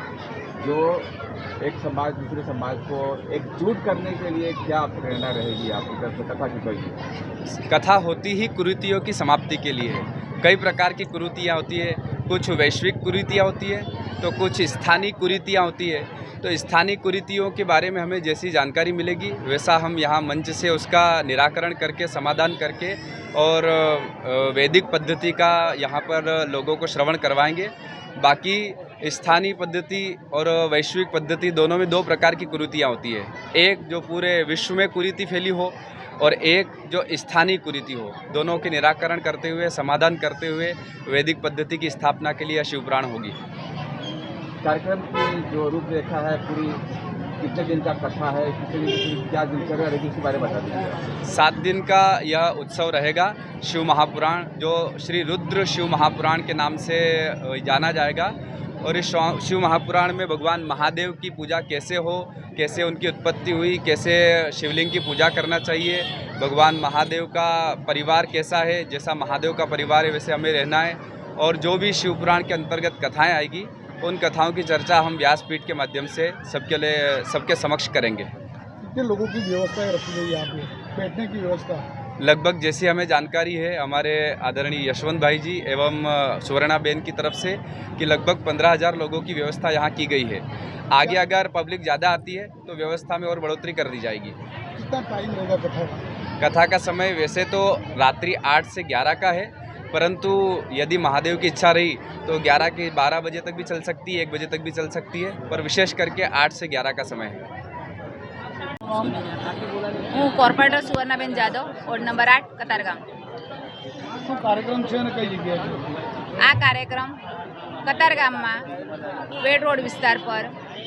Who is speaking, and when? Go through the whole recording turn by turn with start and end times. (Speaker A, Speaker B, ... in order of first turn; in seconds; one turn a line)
Speaker A: 0.6-7.0
Speaker B: 7.5-43.4
Speaker A: 44.6-46.8
Speaker A: 47.4-51.1
Speaker B: 51.2-78.3
Speaker C: 78.8-81.9
Speaker B: 82.2-94.4
Speaker C: 94.8-96.0
Speaker B: 96.4-107.5
Speaker D: 110.1-113.0
Speaker C: 114.2-115.8
Speaker D: 116.4-117.2
Speaker D: 117.8-118.6
Speaker D: 119.4-120.5